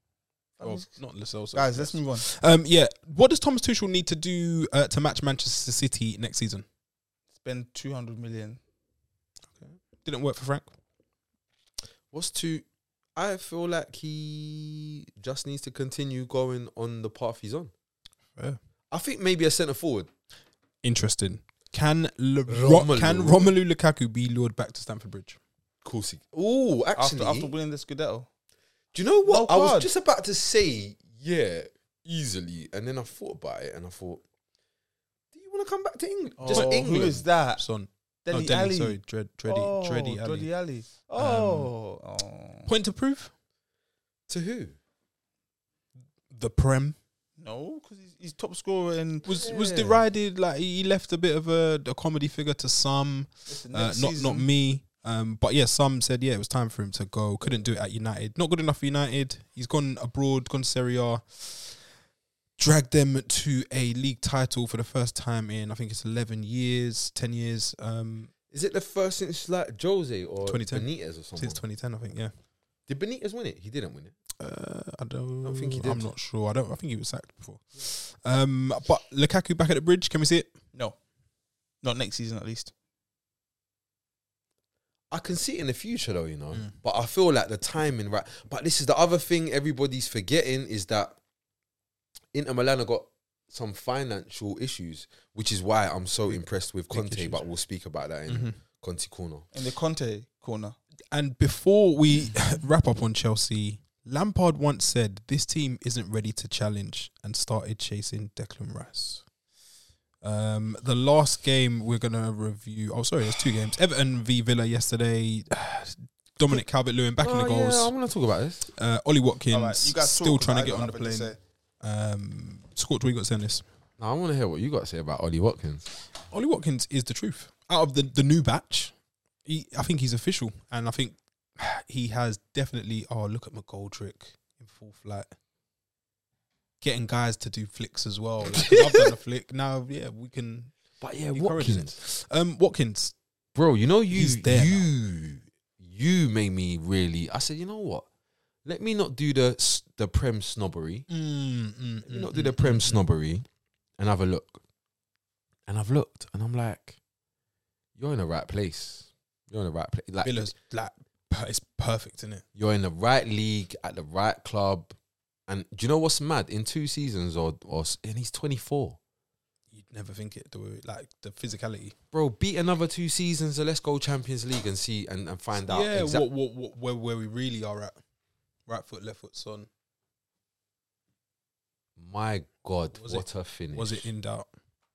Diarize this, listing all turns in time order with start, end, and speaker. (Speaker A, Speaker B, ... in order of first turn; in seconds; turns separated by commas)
Speaker A: 0.6-0.9, Speaker B: 0.6-6.7, Speaker A: 1.5-2.2, Speaker A: 7.4-8.6, Speaker B: 9.6-10.7, Speaker C: 12.1-12.7, Speaker C: 13.2-17.7, Speaker C: 18.9-20.1, Speaker B: 20.8-25.4, Speaker C: 22.5-23.5, Speaker C: 25.8-27.5, Speaker A: 27.0-28.3, Speaker C: 28.9-34.2, Speaker A: 29.2-29.9, Speaker C: 35.3-37.2, Speaker B: 36.4-40.5, Speaker A: 36.5-37.6, Speaker A: 38.2-42.7, Speaker B: 41.2-41.7, Speaker B: 42.7-43.3, Speaker C: 44.3-44.8, Speaker B: 46.3-47.0, Speaker A: 47.4-49.3, Speaker B: 49.3-61.9, Speaker C: 49.3-50.0, Speaker A: 53.5-54.5, Speaker B: 62.6-68.3, Speaker C: 68.5-71.6, Speaker B: 70.5-72.3, Speaker C: 72.9-74.2, Speaker B: 74.4-80.5, Speaker C: 75.4-76.0, Speaker A: 81.8-82.7, Speaker C: 85.1-91.2, Speaker C: 92.3-99.5, Speaker B: 96.9-97.4, Speaker B: 98.3-98.6, Speaker A: 99.5-100.8, Speaker B: 101.1-109.2, Speaker B: 110.2-117.9, Speaker C: 117.2-118.7, Speaker B: 118.7-123.7, Speaker A: 119.5-121.4, Speaker C: 124.0-125.9, Speaker B: 126.3-135.3, Speaker B: 136.8-140.7, Speaker C: 138.4-139.1, Speaker C: 141.0-142.0, Speaker B: 141.3-143.2, Speaker C: 143.6-148.1, Speaker B: 144.1-144.9, Speaker C: 148.7-151.1, Speaker B: 151.1-153.0, Speaker C: 152.1-153.5, Speaker C: 154.0-154.6, Speaker C: 155.7-157.0, Speaker C: 158.0-160.5, Speaker B: 160.2-162.4, Speaker C: 162.6-165.0, Speaker C: 165.5-169.0, Speaker B: 169.7-171.9, Speaker C: 172.1-176.2, Speaker B: 175.5-178.0, Speaker B: 178.7-179.7, Speaker C: 182.0-184.1, Speaker B: 182.9-184.5